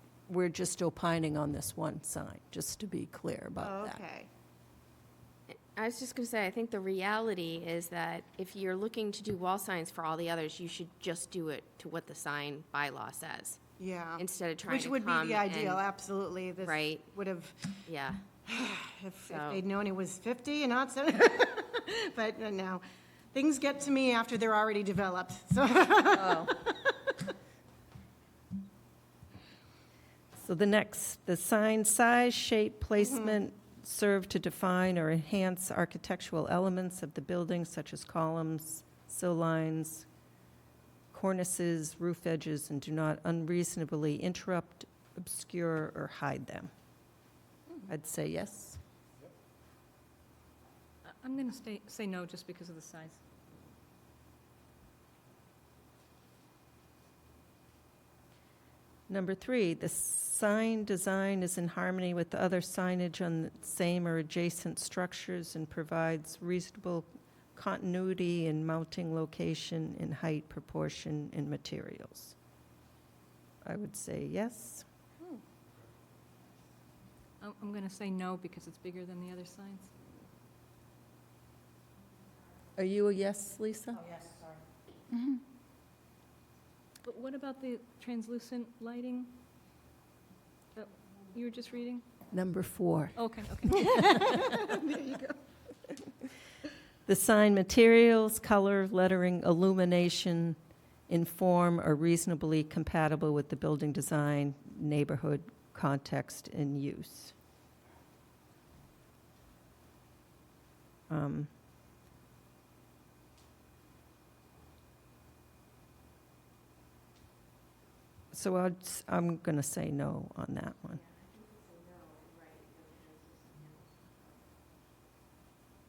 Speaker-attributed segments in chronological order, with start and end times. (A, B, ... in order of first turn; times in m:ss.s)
0:00.3-0:04.0 A
0:03.6-0:04.3 B
0:05.5-0:13.6 C
0:13.8-0:17.8 B
0:14.2-0:15.8 C
0:16.6-0:17.1 C
0:17.8-0:18.2 C
0:18.4-0:27.2 B
0:19.3-0:19.6 C
0:30.4-0:40.1 A
0:33.0-0:33.3 B
0:41.1-0:46.7 A
0:47.9-0:48.8 A
0:51.0-0:53.2 D
0:59.1-1:12.4 A
1:13.6-1:14.8 A
1:17.4-1:19.9 D
1:22.8-1:24.2 A
1:27.0-1:29.4 D
1:30.8-1:32.0 D
1:32.3-1:34.8 A
1:33.2-1:35.2 D
1:37.1-1:40.6 A
1:41.1-1:47.3 A
1:51.1-1:51.5 A
1:58.3-2:01.0 A